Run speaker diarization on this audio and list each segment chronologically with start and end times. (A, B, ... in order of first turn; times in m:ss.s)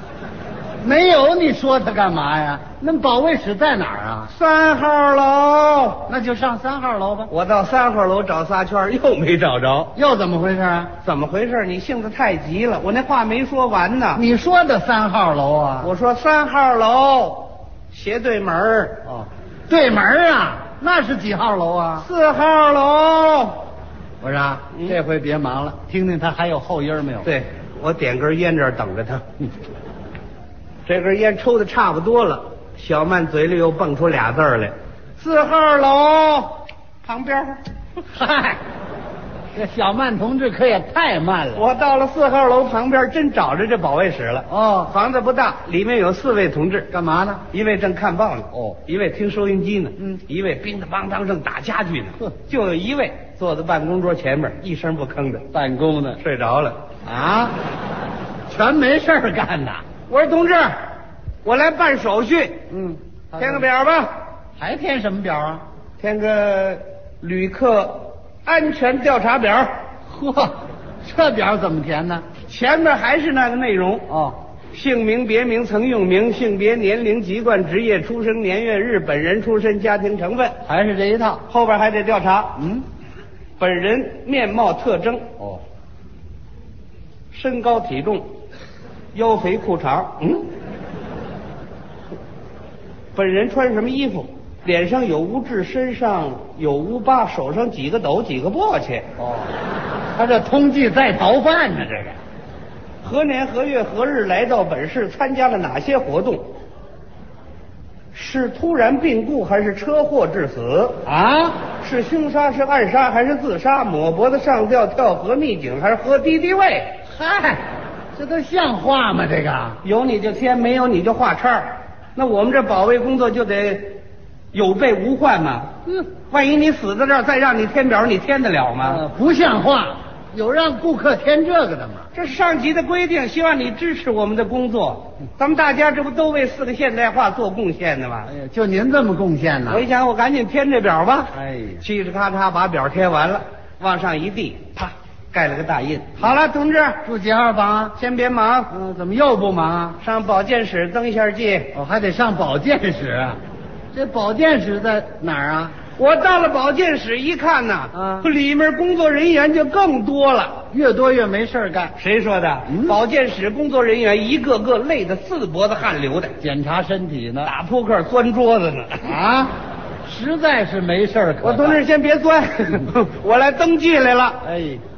0:00.8-0:04.3 A
0:04.3-0:06.1 B
0:06.1-0:07.3 A
0:07.3-0:09.9 B
0:09.9-0:10.9 A
0:11.0-0:14.2 B
0:14.1-0:15.9 A
0:15.8-0:19.0 B
0:19.1-0:22.1 A
0:22.0-0:23.6 B
0:24.2-0:27.3 A
0:27.2-0:29.2 B
0:30.8-0:37.6 B
0:38.1-0:38.6 A
0:39.5-0:41.6 A
0:41.5-0:46.9 B
0:44.5-0:44.9 A
0:46.9-0:47.4 A
0:47.5-0:55.5 B
0:55.5-0:56.2 A
0:56.2-0:56.8 B
0:57.0-0:57.5 A
0:58.5-0:59.8 A
1:00.1-1:00.8 B
1:01.4-1:02.6 B
1:02.7-1:03.7 A
1:03.4-1:04.1 B
1:04.6-1:05.6 A
1:06.0-1:09.7 B
1:10.1-1:12.2 A
1:12.5-1:14.1 B
1:14.1-1:14.4 A
1:14.7-1:20.6 B
1:20.6-1:21.4 A
1:21.5-1:22.6 B
1:23.6-1:25.3 B
1:27.3-1:28.2 B
1:29.1-1:30.5 B
1:33.1-1:39.0 B
1:39.2-1:39.5 A
1:40.2-1:42.2 A
1:43.0-1:46.5 B
1:48.1-1:51.0 B
1:51.0-1:51.6 A
1:51.8-1:57.0 B
1:57.1-1:57.6 A
1:58.2-1:59.8 A
1:59.8-2:04.0 B
2:04.5-2:05.8 B
2:06.3-2:09.0 B
2:08.8-2:12.1 A
2:12.1-2:18.3 B
2:18.3-2:19.8 A
2:19.7-2:27.0 B
2:21.3-2:21.8 A
2:27.0-2:28.0 A
2:27.9-2:28.7 B
2:28.7-2:30.0 A
2:30.0-2:31.8 B
2:31.7-2:33.4 A
2:33.9-2:35.7 A
2:36.0-2:40.6 B
2:37.9-2:38.3 A
2:40.7-2:41.9 A
2:42.0-2:46.4 B
2:46.4-2:47.5 A
2:47.4-2:49.2 B
2:49.0-2:49.5 A
2:50.0-2:51.8 A
2:51.4-2:54.4 B
2:54.4-2:54.8 A